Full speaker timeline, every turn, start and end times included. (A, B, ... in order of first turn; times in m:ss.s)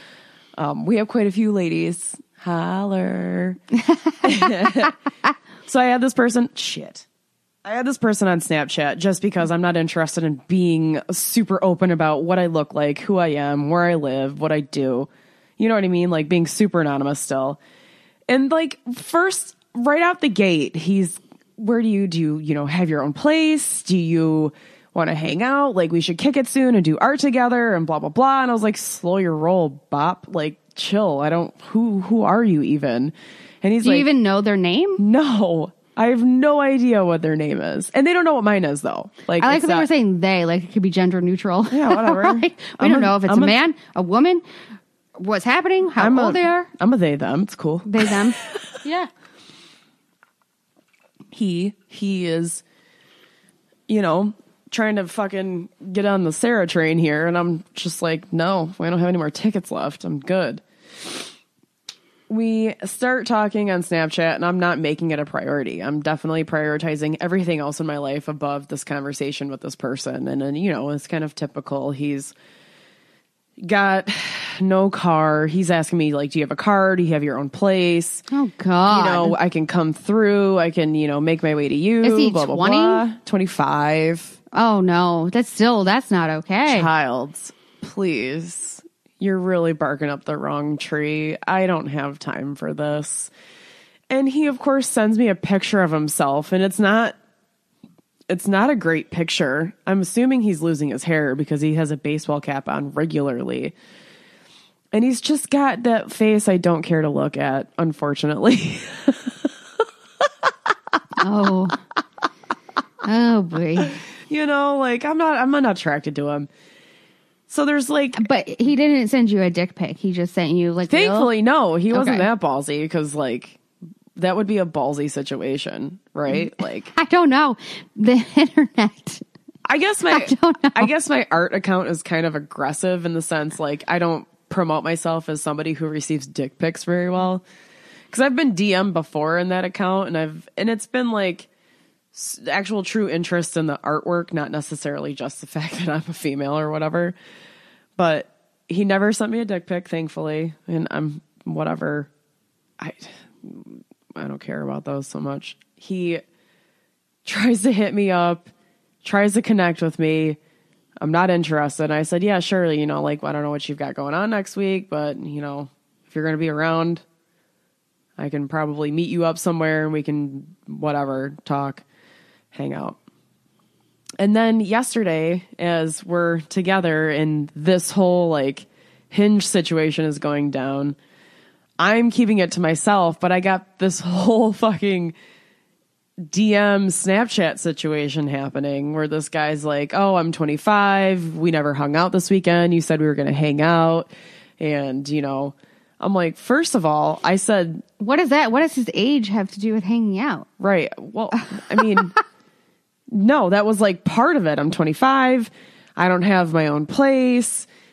0:00.6-0:03.6 A
0:03.9-0:04.6 B
0:04.2-0:05.0 A
0:05.7-0:07.1 A
0:07.6-0:17.6 A
0:18.3-0:34.1 A
0:33.8-0:35.0 B
0:35.0-0:39.9 A
0:39.4-0:44.4 B
0:41.7-0:43.6 A
0:45.2-0:46.7 B
0:46.0-0:48.7 A
0:47.9-0:49.1 B
0:51.3-0:52.6 A
0:53.9-1:01.1 A
1:02.3-1:12.3 A
1:13.6-1:18.2 A
1:18.3-1:19.4 B
1:18.9-1:24.4 A
1:22.0-1:23.0 B
1:24.5-1:26.9 B
1:26.7-1:33.3 A
1:34.1-1:37.2 A
1:38.3-1:43.7 A
1:44.9-1:50.7 A
1:51.2-1:51.8 B
1:53.0-1:54.0 B
1:53.8-1:56.5 A
1:57.5-1:58.2 A
1:58.2-2:01.3 B
2:00.9-2:03.6 A
2:01.9-2:02.3 B
2:04.2-2:06.9 A
2:06.3-2:09.2 B
2:09.7-2:17.4 A
2:10.1-2:10.9 B
2:18.1-2:21.5 A
2:22.1-2:27.1 A
2:28.0-2:32.1 A
2:32.8-2:36.2 A
2:37.2-2:38.5 A
2:39.0-2:40.4 A
2:41.0-2:47.0 A
2:48.2-2:51.8 A
2:52.5-2:53.0 A
2:54.2-3:01.0 A
3:01.8-3:05.1 A
3:06.2-3:17.8 A
3:18.0-3:20.5 B
3:20.6-3:22.1 A
3:21.4-3:22.2 B
3:23.1-3:27.7 A